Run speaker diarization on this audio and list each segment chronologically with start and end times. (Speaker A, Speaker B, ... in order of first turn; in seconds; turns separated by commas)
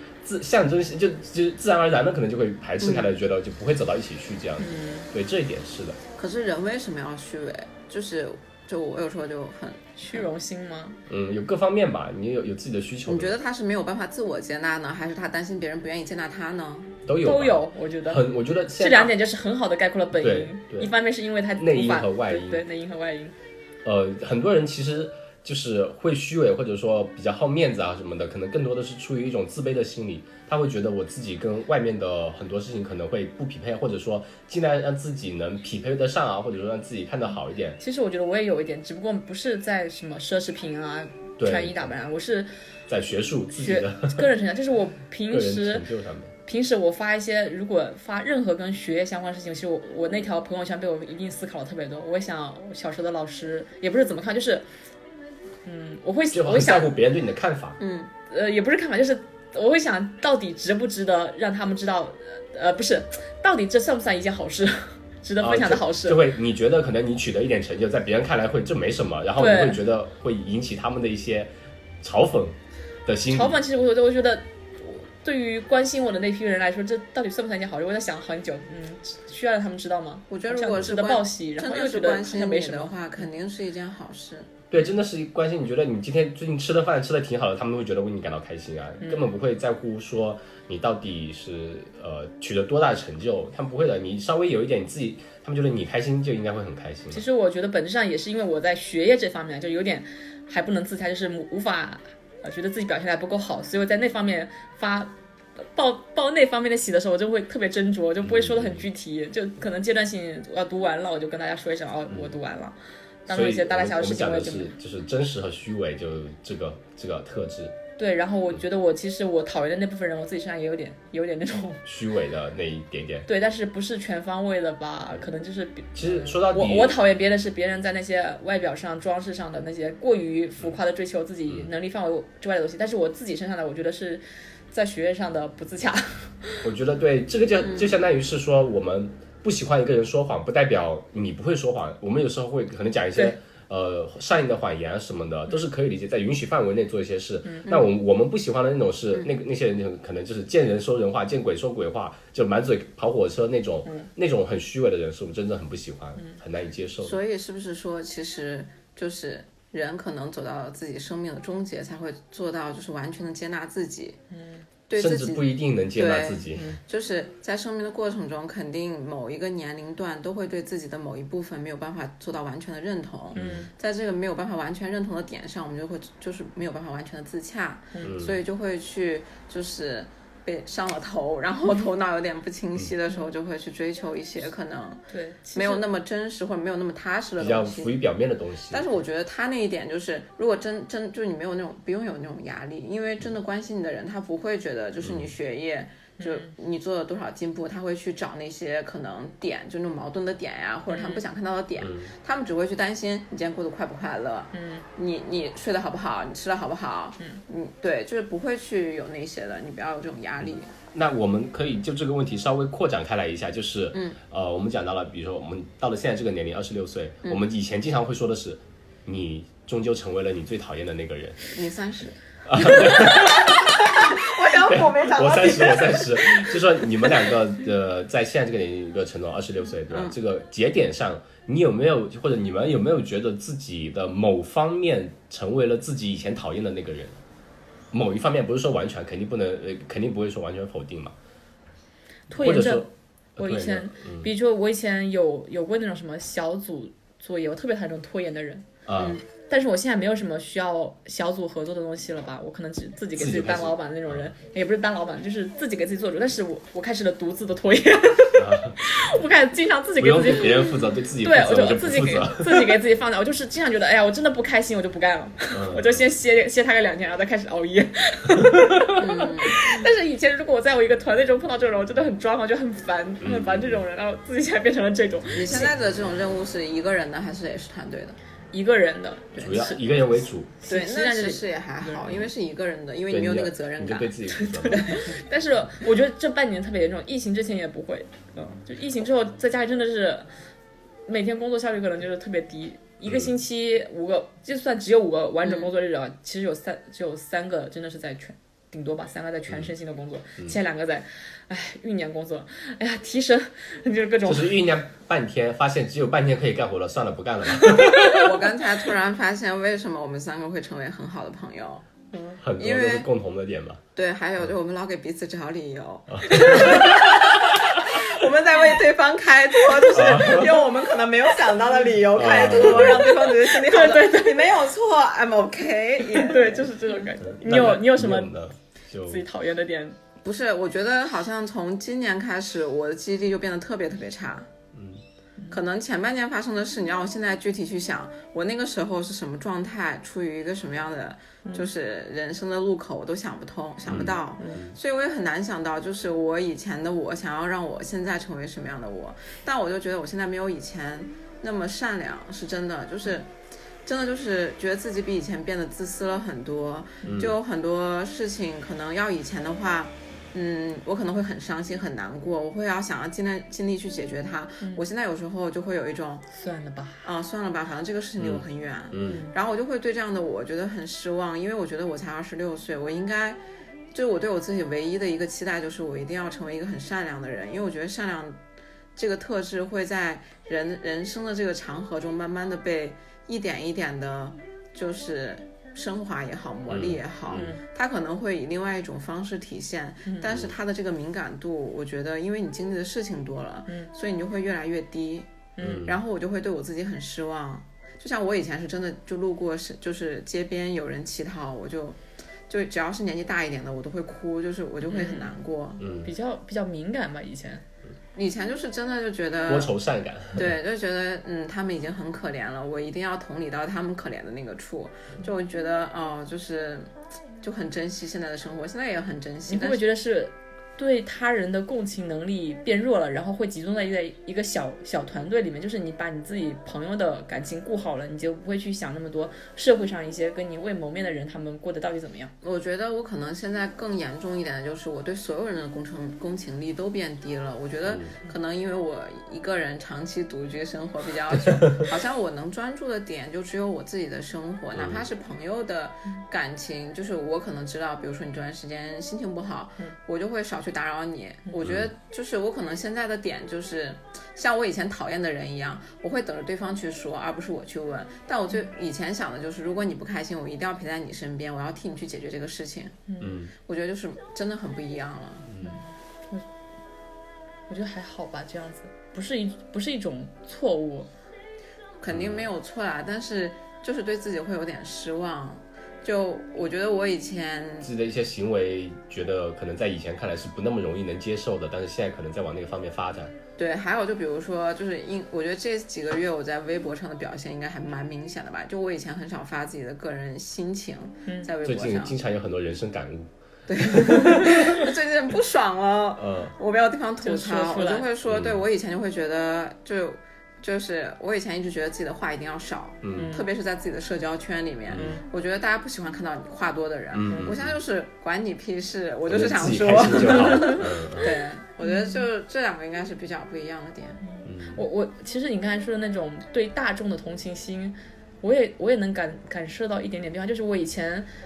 Speaker A: 0.2-6.0, Speaker B: 4.6-5.1, Speaker C: 6.2-10.3, Speaker B: 10.0-11.0, Speaker A: 11.1-13.4, Speaker C: 13.1-17.0, Speaker A: 17.1-19.1, Speaker B: 17.2-18.3, Speaker B: 18.8-23.3, Speaker A: 20.1-20.9, Speaker A: 21.6-22.6, Speaker A: 23.9-37.8, Speaker B: 37.8-42.5, Speaker A: 41.4-41.9, Speaker A: 42.9-44.3, Speaker B: 43.6-45.9, Speaker A: 45.3-46.3, Speaker B: 46.5-54.6, Speaker B: 55.6-57.0, Speaker A: 56.3-57.8, Speaker C: 57.8-58.1, Speaker B: 58.3-66.2, Speaker A: 65.4-73.6, Speaker B: 69.4-69.8, Speaker B: 73.3-82.9, Speaker C: 80.3-84.5, Speaker A: 84.7-97.2, Speaker B: 89.0-89.3, Speaker B: 97.1-114.7, Speaker A: 108.2-108.9, Speaker A: 112.1-112.3, Speaker A: 113.3-117.8, Speaker B: 118.0-121.8, Speaker A: 121.8-123.3, Speaker B: 123.3-136.6, Speaker A: 126.0-127.0, Speaker A: 136.6-157.2, Speaker C: 137.6-137.9, Speaker C: 157.0-164.2, Speaker B: 164.3-164.7, Speaker C: 164.9-185.0, Speaker A: 165.0-166.8, Speaker A: 173.3-173.7, Speaker B: 173.3-173.7, Speaker A: 178.0-178.4, Speaker B: 185.1-185.9, Speaker C: 185.5-188.0, Speaker A: 187.4-188.9, Speaker C: 188.7-210.7, Speaker A: 195.0-195.3, Speaker B: 196.2-196.5, Speaker B: 200.9-201.3, Speaker A: 201.8-202.1, Speaker B: 204.5-204.9, Speaker A: 210.9-221.5, Speaker C: 213.9-214.2, Speaker C: 221.5-227.1, Speaker A: 222.4-237.2, Speaker C: 229.9-230.2, Speaker A: 237.9-241.2, Speaker B: 242.3-248.7, Speaker A: 242.3-244.3, Speaker A: 248.9-249.2, Speaker C: 249.0-249.2, Speaker B: 249.4-275.7, Speaker A: 253.2-254.3, Speaker A: 258.4-258.8, Speaker A: 260.0-262.8, Speaker A: 265.5-266.0, Speaker A: 268.3-268.7, Speaker C: 269.0-269.6, Speaker A: 273.2-273.8, Speaker C: 275.4-278.2, Speaker B: 278.5-279.8, Speaker C: 279.4-279.6, Speaker A: 279.4-280.5, Speaker B: 280.6-282.2, Speaker C: 280.7-284.1, Speaker A: 283.1-285.0, Speaker B: 284.4-290.3, Speaker B: 291.1-304.6, Speaker A: 293.1-293.3, Speaker C: 295.4-295.7, Speaker A: 304.2-308.3, Speaker C: 308.0-311.9, Speaker B: 312.1-312.4, Speaker A: 312.4-313.8, Speaker C: 312.6-313.1, Speaker C: 313.9-326.8, Speaker A: 316.1-317.2, Speaker A: 319.9-320.6, Speaker A: 322.1-323.1, Speaker B: 322.9-324.5, Speaker B: 326.1-328.3, Speaker A: 327.2-329.2, Speaker B: 329.1-330.0, Speaker C: 330.2-334.5, Speaker A: 334.7-335.0, Speaker C: 335.5-353.3, Speaker A: 343.9-344.8, Speaker C: 353.9-366.2, Speaker A: 357.0-357.4, Speaker B: 366.3-367.1, Speaker C: 367.0-373.4, Speaker A: 368.2-369.3, Speaker B: 369.0-369.3, Speaker C: 373.9-378.4, Speaker C: 379.0-395.3, Speaker A: 386.7-387.5, Speaker B: 387.3-387.6, Speaker B: 390.1-390.4, Speaker B: 395.6-395.9, Speaker A: 395.6-396.0, Speaker C: 395.8-405.8, Speaker B: 404.9-405.3, Speaker A: 405.8-406.1, Speaker B: 406.1-407.6, Speaker C: 408.1-409.7, Speaker A: 409.5-410.5, Speaker C: 410.4-416.9, Speaker C: 417.4-419.8, Speaker B: 419.5-432.3, Speaker C: 432.4-463.0, Speaker A: 437.9-438.2, Speaker A: 441.6-441.9, Speaker A: 444.7-445.0, Speaker A: 451.6-451.9, Speaker B: 463.1-463.4, Speaker A: 463.2-463.5, Speaker C: 463.6-465.4, Speaker A: 465.5-465.8, Speaker B: 465.6-466.4, Speaker B: 467.7-471.1, Speaker C: 472.0-477.9, Speaker A: 472.1-472.4, Speaker A: 477.8-483.3, Speaker C: 483.6-492.1, Speaker B: 491.3-491.5, Speaker A: 491.6-493.3, Speaker C: 493.7-514.2, Speaker A: 493.8-494.8, Speaker A: 496.2-496.5, Speaker B: 497.2-498.1, Speaker A: 498.3-498.6, Speaker A: 503.0-503.3, Speaker B: 503.1-503.5, Speaker A: 504.9-505.2, Speaker B: 504.9-505.2, Speaker A: 507.1-507.8, Speaker A: 509.3-511.3, Speaker B: 510.2-512.3, Speaker B: 514.2-521.3, Speaker A: 514.4-514.8